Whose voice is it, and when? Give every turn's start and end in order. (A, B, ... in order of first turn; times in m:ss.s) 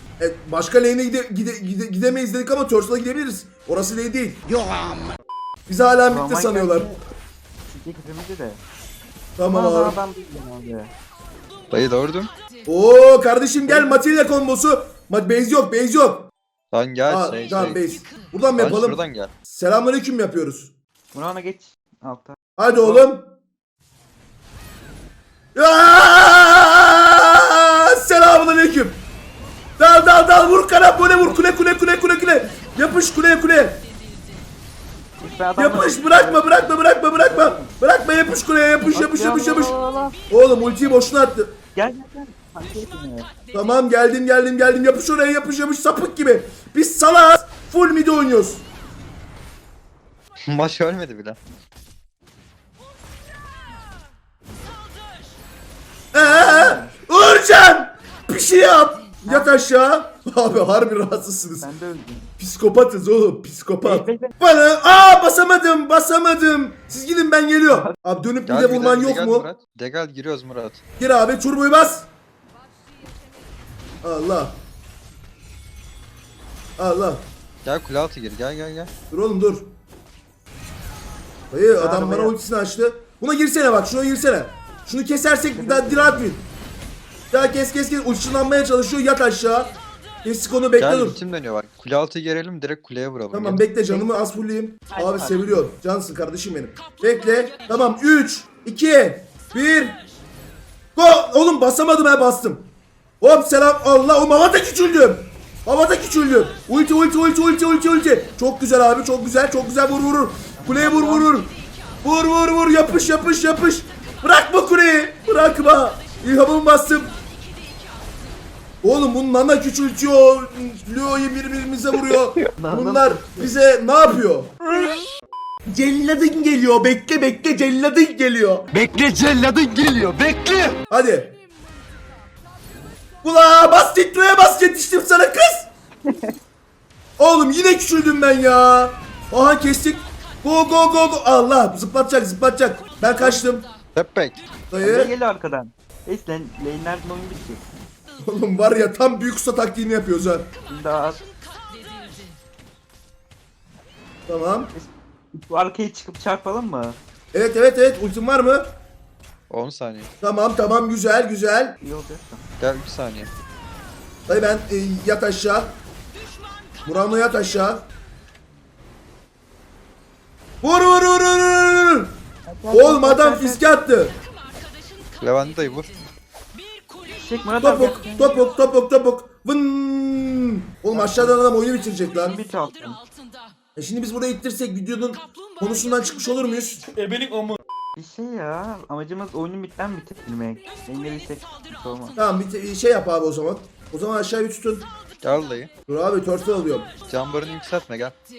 0:00.2-0:04.4 A
0:05.7-0:06.9 A
0:06.1-0:07.0 B
0:07.7-0:08.6 B
0:09.4-0:10.0 A
0:09.4-0:10.9 B
0:11.7-0:12.3 C
0:12.7-0:16.3 A
0:13.6-0:14.1 B
0:16.7-0:17.8 C
0:17.1-0:20.7 A
0:18.6-0:19.3 C
0:21.1-0:23.1 B
0:22.6-0:23.3 A
0:25.6-0:29.0 A
0:29.8-0:33.8 A
0:35.2-0:36.6 B
0:35.6-0:39.8 A
0:37.2-0:37.7 B
0:38.9-0:40.3 B
0:40.3-0:41.6 A
0:41.8-0:43.3 B
0:43.5-0:48.6 A
0:50.5-0:51.4 C
0:56.1-1:01.7 A
0:56.1-0:57.0 B
0:59.2-0:59.5 B
1:01.6-1:02.3 B
1:02.4-1:09.5 A
1:03.8-1:04.3 B
1:07.7-1:08.0 B
1:08.5-1:10.8 C
1:11.0-1:12.1 A
1:14.0-1:14.6 A
1:16.8-1:17.3 A
1:17.6-1:18.9 C
1:19.1-1:19.7 A
1:21.5-1:26.5 A
1:21.8-1:22.4 B
1:25.5-1:26.3 B
1:27.3-1:29.7 A
1:30.2-1:31.2 A
1:30.8-1:33.7 C
1:33.3-1:40.0 A
1:34.9-1:35.7 B
1:41.0-1:42.7 A
1:43.2-1:51.5 A
1:50.6-1:51.3 B
1:52.0-1:57.2 A
1:58.8-2:04.5 A
2:02.6-2:03.5 B
2:05.7-2:08.7 A
2:08.7-2:10.8 D
2:10.9-2:11.3 A
2:13.2-2:15.7 A
2:16.0-2:16.4 B
2:17.2-2:23.7 A
2:23.2-2:23.5 B
2:23.9-2:24.4 C
2:24.7-2:25.1 A
2:24.8-2:27.6 B
2:28.2-2:30.5 A
2:30.6-2:31.3 B
2:34.3-2:34.7 A
2:34.7-2:37.0 B
2:37.3-2:38.7 A
2:39.5-2:40.1 C
2:40.2-2:41.8 A
2:41.8-2:42.4 B
2:42.6-2:43.3 C
2:44.3-2:45.8 A
2:46.8-2:47.9 A
2:50.6-2:52.1 A
2:52.5-2:53.6 B
2:52.7-2:54.2 A
2:55.2-2:55.9 C
2:57.0-2:58.4 B
2:57.6-3:02.4 A
3:00.9-3:01.4 B
3:02.1-3:03.0 B
3:03.8-3:06.9 A
3:07.0-3:07.6 D
3:08.0-3:12.2 B
3:12.2-3:14.9 A
3:15.2-3:15.7 C
3:15.9-3:16.9 A
3:17.1-3:18.1 C